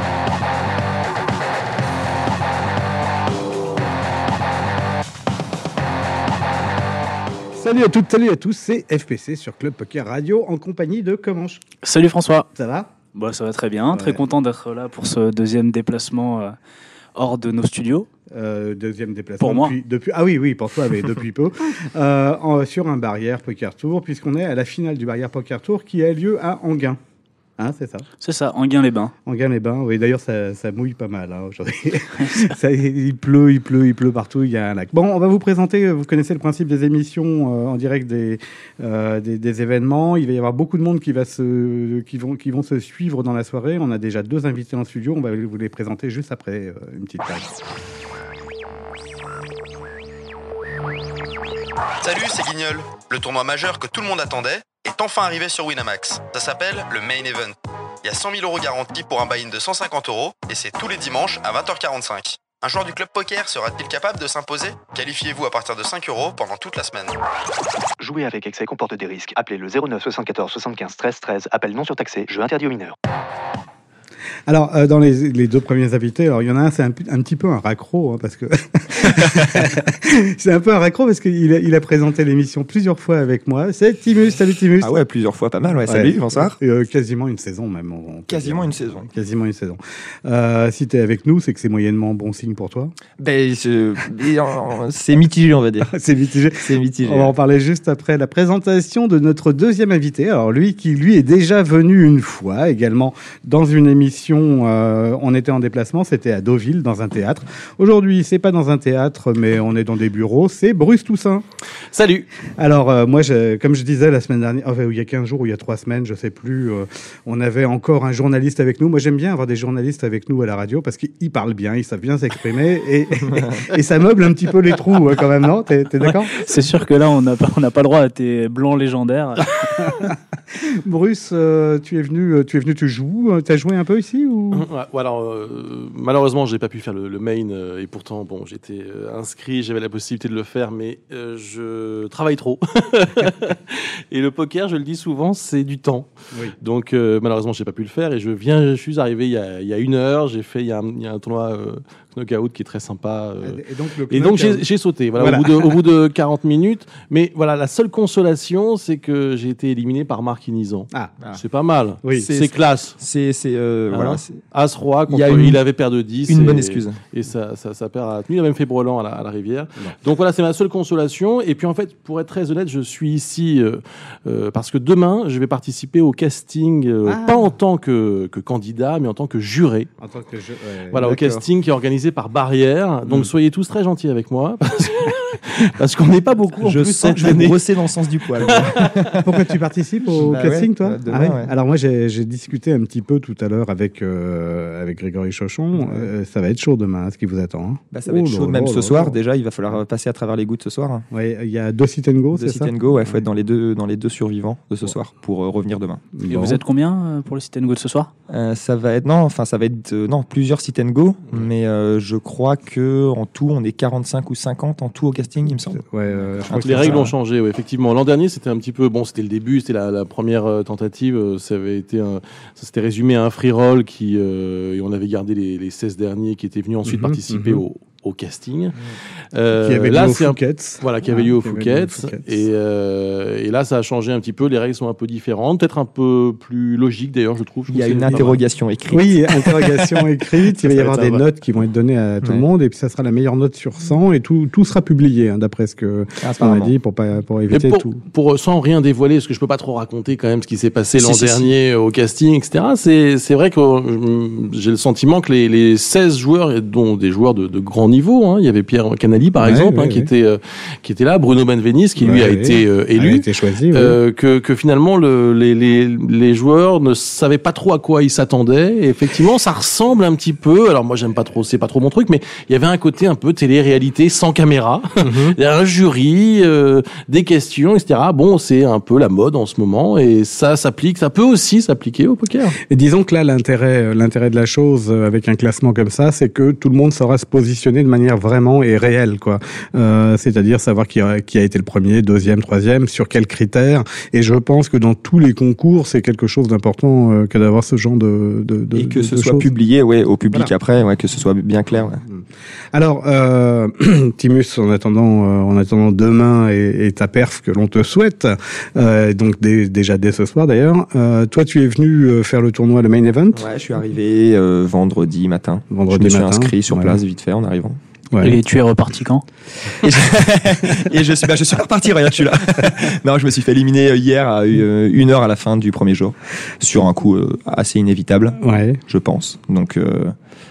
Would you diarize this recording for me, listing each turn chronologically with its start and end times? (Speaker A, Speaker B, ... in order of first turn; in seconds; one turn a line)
Speaker A: 7.6-11.6
Speaker B: 11.8-12.5
Speaker A: 12.6-12.9
Speaker B: 13.1-16.6
Speaker A: 13.9-14.2
Speaker B: 17.2-18.1
Speaker A: 18.3-27.0
Speaker B: 19.4-19.8
Speaker A: 27.6-28.1
Speaker B: 28.2-29.1
Speaker A: 29.3-47.5
Speaker B: 32.2-32.5
Speaker C: 52.0-67.2
Speaker D: 68.0-72.9
Speaker A: 74.5-84.9
Speaker E: 79.0-79.5
Speaker E: 84.8-86.6
Speaker A: 85.9-92.9
Speaker E: 88.3-89.1
Speaker E: 93.2-95.9
Speaker A: 95.8-111.4
Speaker E: 96.6-97.3
Speaker F: 111.9-112.3
Speaker A: 112.6-126.3
Speaker B: 126.1-130.1
Speaker A: 129.9-134.7
Speaker F: 134.5-146.1
Speaker F: 146.6-153.6
Speaker A: 153.4-154.7
Speaker F: 154.1-163.0
Speaker A: 155.2-155.8
Speaker A: 160.9-161.2
Speaker E: 162.2-164.4
Speaker F: 163.9-179.9
Speaker E: 165.1-165.6
Speaker E: 166.3-167.0
Speaker A: 177.1-177.5
Speaker A: 180.0-181.1
Speaker F: 180.9-187.6
Speaker E: 181.0-181.4
Speaker E: 186.6-189.4
Speaker F: 188.4-188.9
Speaker A: 189.2-199.2
Speaker E: 190.2-191.5
Speaker E: 195.8-196.1
Speaker E: 197.9-201.1
Speaker A: 201.1-203.2
Speaker E: 202.4-206.0
Speaker A: 206.2-206.6
Speaker B: 206.3-208.1
Speaker E: 208.3-215.8
Speaker A: 215.8-217.1
Speaker E: 216.5-217.1
Speaker F: 216.6-228.8
Speaker A: 226.8-227.6
Speaker F: 229.3-238.4
Speaker A: 229.5-232.3
Speaker E: 237.7-240.0
Speaker A: 238.9-248.0
Speaker F: 240.7-241.2
Speaker E: 246.2-246.7
Speaker F: 247.5-282.6
Speaker E: 251.0-251.5
Speaker A: 259.4-260.1
Speaker A: 262.0-264.0
Speaker A: 275.0-275.4
Speaker A: 282.6-299.5
Speaker E: 298.8-302.0
Speaker A: 302.7-313.5
Speaker E: 313.4-317.8
Speaker A: 315.7-317.0
Speaker A: 318.1-318.4
Speaker B: 318.2-319.2
Speaker E: 319.8-330.1
Speaker A: 328.4-328.8